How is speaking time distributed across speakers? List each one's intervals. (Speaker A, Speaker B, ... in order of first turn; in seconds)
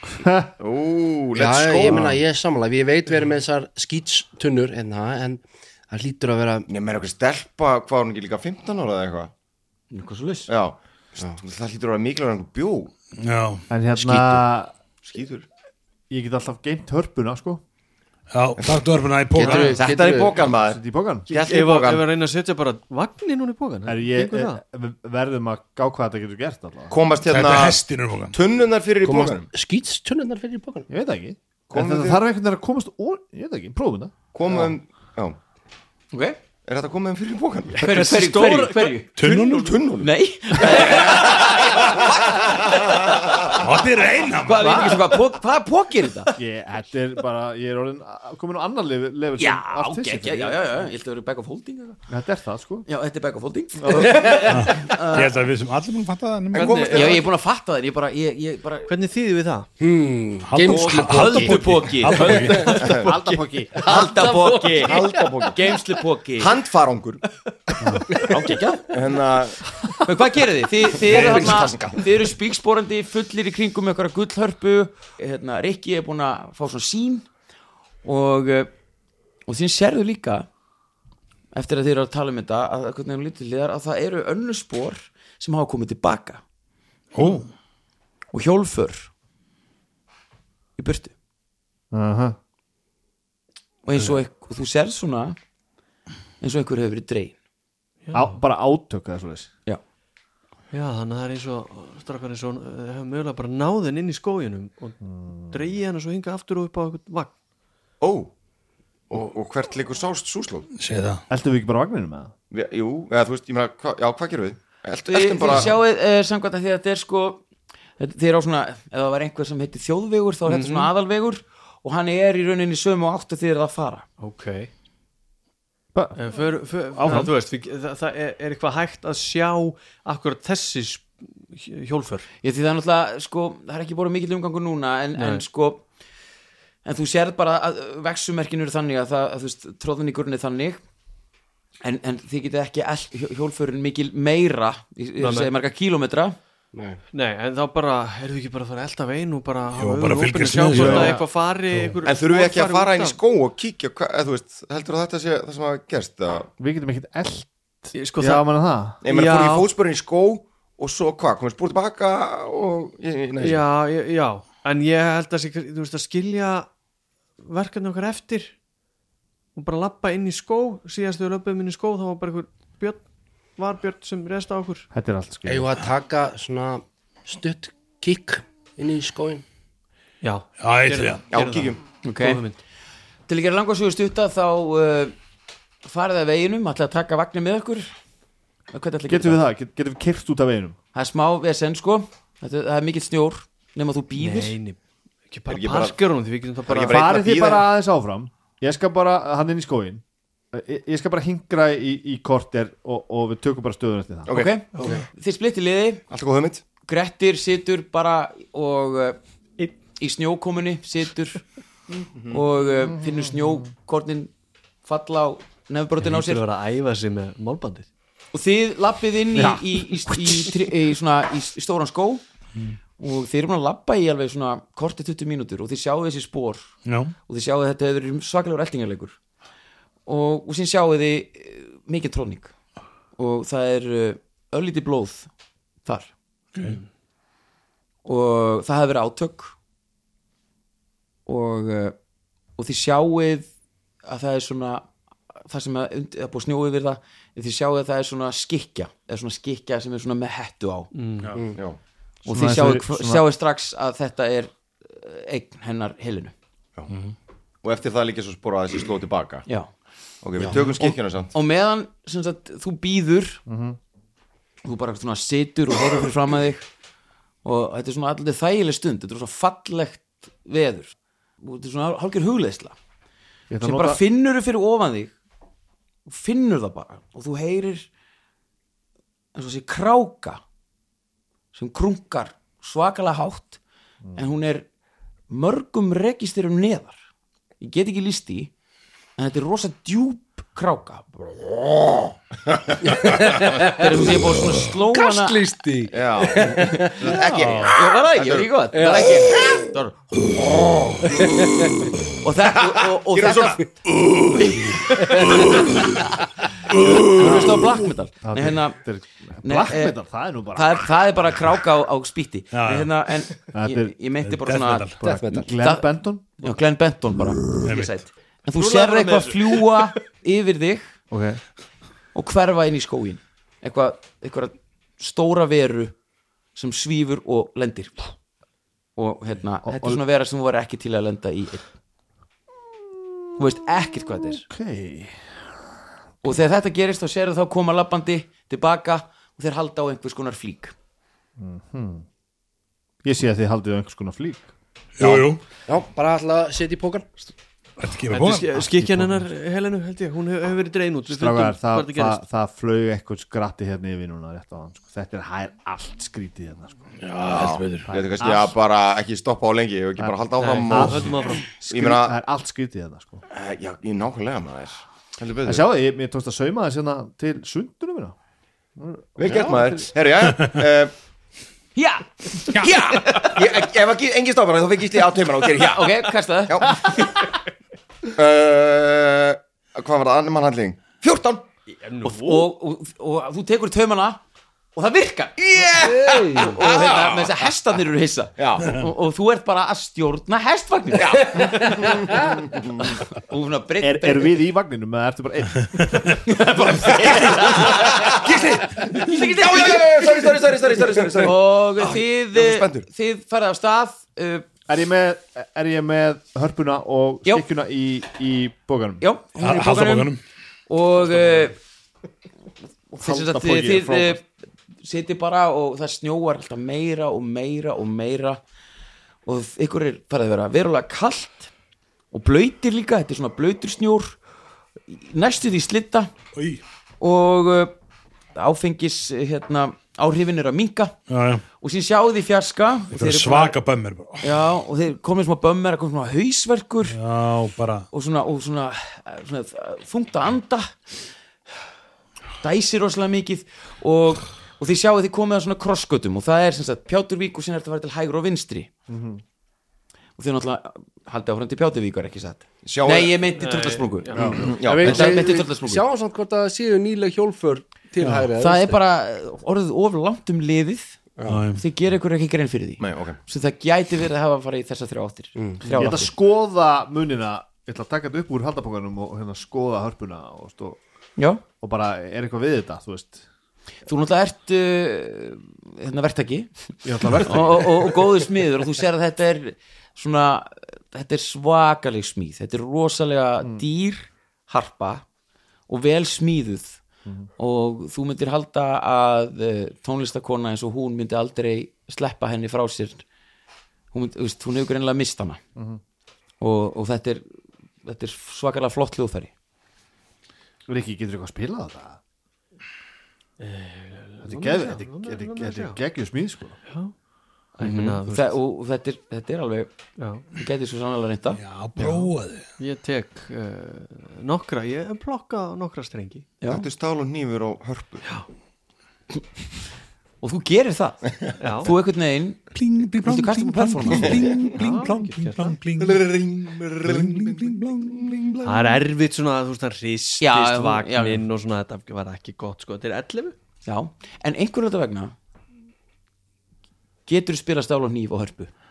Speaker A: 0.2-0.5, 13.7-14.7, 16.1-17.6, 20.5-21.4, 23.9-26.9, 30.9-34.1, 46.4-50.5, 52.1-52.8, 53.8-54.2, 63.0-63.9, 91.9-92.4, 98.1-99.5, 105.0-105.6, 111.3-112.3, 125.9-126.4, 127.0-127.3, 156.6-159.0, 174.9-175.7, 189.1-190.8, 196.8-204.3, 252.3-253.2, 263.5-263.8, 273.5-274.0, 307.2-310.8, 313.5-313.9, 315.0-316.6, 321.1-321.4, 329.6-330.0, 334.4-335.3, 341.4-342.0, 343.0-344.5, 348.7-349.3, 351.1-356.9, 357.9-358.5, 360.0-363.2, 365.4-368.1, 368.8-369.9, 393.8-396.2, 404.7-409.0, 413.0-414.2, 448.9-449.2, 454.1-454.6, 465.7-470.8, 471.6-473.2, 476.8-477.9, 500.7-502.0, 504.2-506.6
Speaker B: 0.6-2.2, 6.7-9.3, 10.5-12.9, 15.0-15.5, 19.4-22.1, 26.9-27.8, 28.3-29.5, 31.7-32.2, 34.3-35.4, 36.7-37.8, 39.2-43.6, 56.5-57.3, 62.8-63.1, 63.9-65.6, 66.4-67.2, 68.9-69.6, 70.9-72.1, 108.0-108.3, 109.1-110.7, 112.5-115.7, 152.0-156.5, 159.0-163.6, 181.3-181.8, 195.5-196.0, 196.7-197.7, 204.3-205.0, 206.1-206.6, 211.9-212.4, 257.6-259.4, 260.2-261.3, 295.9-299.6, 300.3-301.1, 302.5-303.7, 357.3-362.1, 363.3-365.6, 369.2-370.9, 372.6-377.2, 378.1-381.5, 385.4-387.3, 388.4-388.8, 390.9-393.0, 396.8-402.9, 452.6-453.3, 454.4-455.2, 462.8-463.2, 516.4-518.0, 524.0-524.5, 525.8-528.8
Speaker C: 1.3-6.7, 19.3-20.3, 29.0-30.9, 59.8-61.5, 62.2-62.7, 63.8-65.4, 146.7-147.0, 175.4-179.4, 292.8-294.2, 294.9-297.2, 298.7-299.5, 301.1-301.9, 315.0-315.5, 345.7-347.1, 385.8-386.6, 454.6-458.8, 465.4-465.6
Speaker D: 9.9-10.5, 36.1-36.4, 37.8-39.1, 40.0-42.1, 44.4-46.3, 49.4-52.0, 52.9-55.3, 56.9-58.9, 60.6-63.0, 63.8-66.5, 68.1-68.9, 70.0-77.2, 78.0-78.7, 79.5-80.5, 81.5-86.4, 88.3-89.1, 90.8-91.1, 93.8-95.4, 96.4-97.3, 115.1-117.4, 118.0-124.0, 132.4-135.8, 136.8-140.8, 141.8-146.4, 150.8-151.2, 182.0-182.4, 183.3-185.1, 185.8-187.9, 188.7-189.4, 190.9-194.6, 204.3-206.0, 206.8-209.2, 209.9-211.4, 212.3-214.3, 214.8-216.4, 218.3-222.2, 223.0-226.7, 227.3-229.2, 230.1-232.5, 233.2-235.3, 235.8-236.1, 238.1-239.5, 241.2-241.9, 242.6-243.5, 244.0-244.9, 245.4-250.9, 252.2-256.3, 260.5-263.4, 264.6-266.6, 267.4-272.8, 273.6-275.1, 276.1-277.9, 279.3-280.4, 281.5-283.6, 284.1-284.7, 285.3-287.0, 287.6-288.5, 289.2-291.4, 293.7-295.5, 296.5-300.0, 302.2-303.6, 304.3-304.8, 306.8-308.8, 309.4-309.9, 310.5-315.0, 315.6-320.9, 322.1-325.9, 326.5-328.1, 328.9-331.6, 333.4-334.4, 336.2-340.7, 371.7-373.4, 375.6-377.0, 382.0-384.2, 384.7-385.4, 386.3-391.7, 393.1-394.4, 396.2-400.4, 401.1-404.4, 409.0-410.1, 410.7-411.6, 412.9-414.2, 414.8-418.4, 419.2-421.5, 422.1-424.2, 424.9-426.1, 427.0-427.7, 428.3-430.9, 431.6-433.6, 434.2-437.0, 437.9-440.8, 442.4-448.7, 450.2-455.8, 458.4-461.0, 461.6-466.1, 471.2-471.4, 473.9-476.5, 477.1-485.0, 485.7-486.8, 487.4-493.0, 493.9-495.4, 496.4-497.2, 497.8-499.3, 507.6-509.7, 510.3-511.4, 516.4-516.6, 520.2-522.5, 523.0-524.4, 530.2-531.2, 533.6-535.1, 537.1-538.5
Speaker E: 13.2-13.6, 18.3-19.8, 27.3-28.4, 39.1-39.8, 43.5-45.0, 54.5-57.0, 60.5-62.8, 87.1-87.5, 110.8-111.2, 127.0-127.3, 149.7-151.2, 151.7-152.0, 180.6-181.2, 226.8-227.1, 297.1-297.8, 305.0-305.7, 312.5-312.9, 314.2-315.0, 317.6-317.9, 318.6-319.1, 345.0-345.4, 347.8-348.6, 357.0-357.9, 409.4-410.2, 426.3-426.6, 431.1-431.4, 432.9-434.4, 436.9-437.9, 461.2-461.6, 511.4-512.5, 522.5-526.0, 526.8-527.9
Speaker F: 21.4-24.6, 37.7-39.0, 56.5-57.2, 58.9-59.7, 62.3-63.4, 98.0-98.4, 100.7-105.0, 105.5-107.3, 120.5-120.9, 124.2-124.7, 126.2-132.3, 135.2-135.4, 145.2-145.5, 147.1-153.2, 157.9-158.5, 159.1-159.7, 163.4-166.7, 167.4-168.5, 169.5-173.1, 173.6-174.9, 180.2-182.6, 194.2-194.8, 195.3-197.1, 204.7-205.0, 216.0-217.9, 236.6-236.8, 250.9-251.4, 319.2-319.7, 348.1-352.2, 360.4-361.5, 381.8-382.5, 453.4-454.4, 503.4-505.8, 506.7-506.9, 507.6-508.4, 510.0-510.2, 511.8-516.4, 521.4-521.7, 524.5-525.6, 528.4-533.4